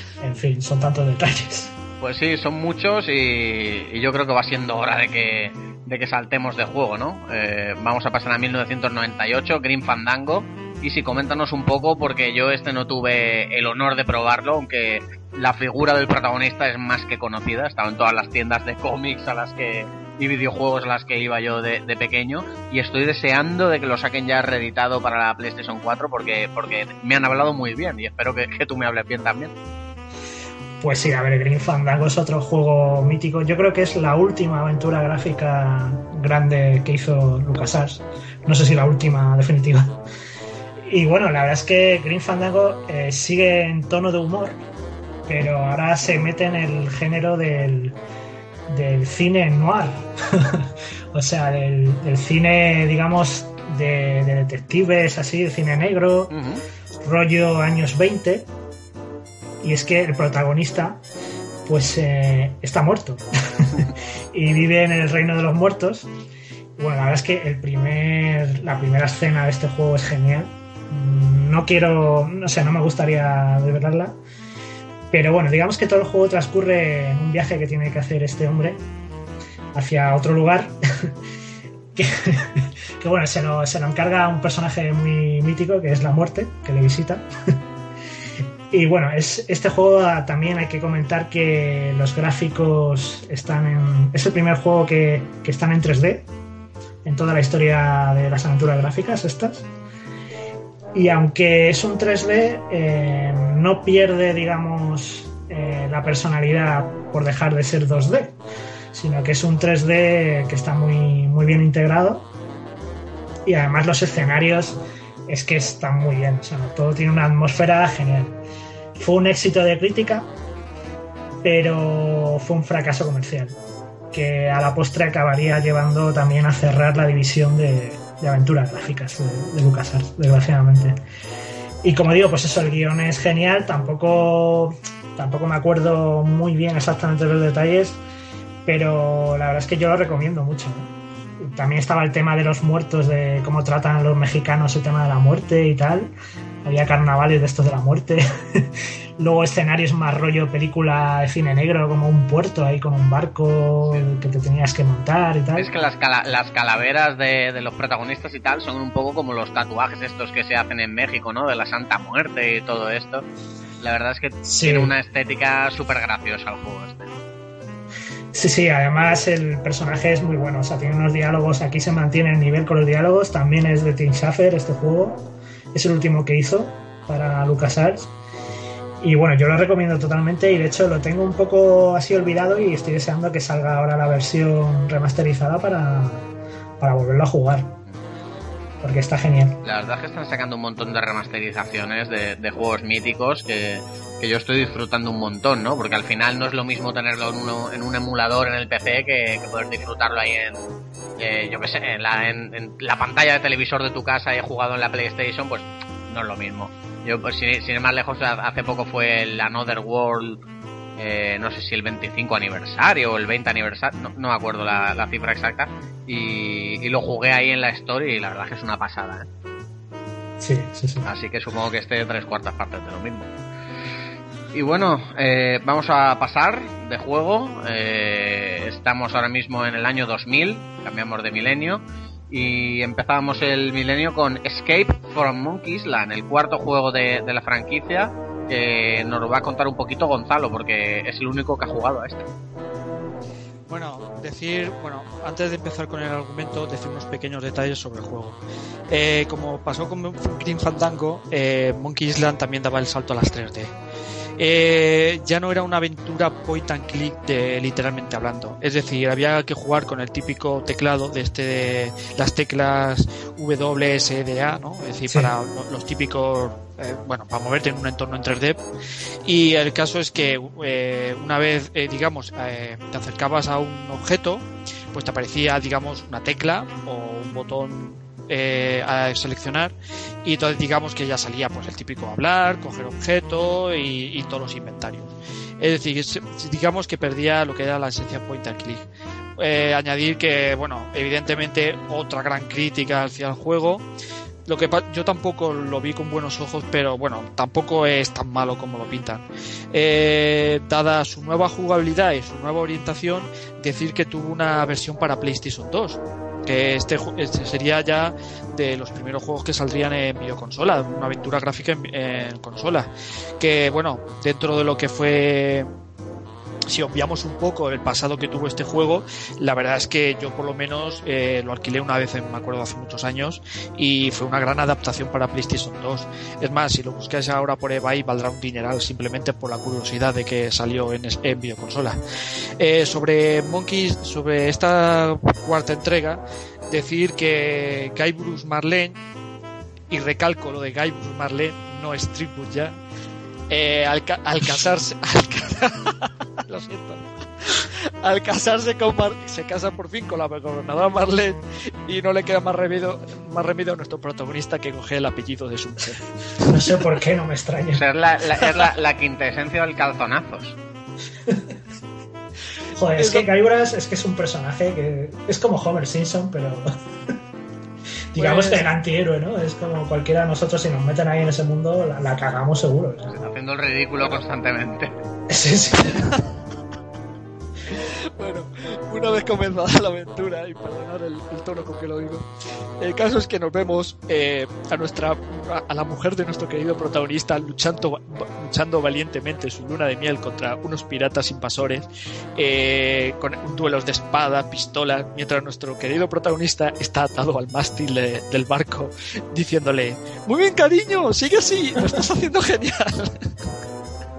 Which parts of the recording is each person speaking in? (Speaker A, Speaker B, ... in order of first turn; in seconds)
Speaker A: 0.2-1.7, 30.8-40.0, 40.8-44.6, 45.3-48.0, 48.7-56.3, 57.0-58.5, 59.6-61.0, 61.6-66.1, 66.8-74.2, 75.1-78.8, 79.7-81.1, 81.9-87.6, 88.7-96.3, 97.0-99.7, 100.9-108.4, 108.9-112.3, 113.4-118.4, 119.0-120.3, 121.4-123.6, 124.1-131.0, 131.8-138.0, 138.6-140.9, 141.4-155.7, 164.4-164.9, 168.3-178.1, 179.0-186.2, 186.8-187.7, 188.8-189.6, 220.4-221.1, 356.4-357.8, 362.7-366.7, 368.1-373.1, 375.3-376.1
Speaker B: 2.0-29.5, 56.3-56.6, 155.5-163.2, 163.8-167.1, 189.6-200.6, 201.2-210.4, 211.0-219.3, 221.0-223.3, 224.5-242.3, 357.8-360.6, 373.1-374.9
Speaker C: 243.7-253.7, 254.4-268.6, 269.2-288.9, 289.4-293.8, 294.4-312.9, 313.4-315.7, 316.7-332.0, 332.6-339.0, 339.9-342.8, 343.5-356.1, 362.9-363.3, 368.1-368.7, 377.7-382.2, 382.8-403.3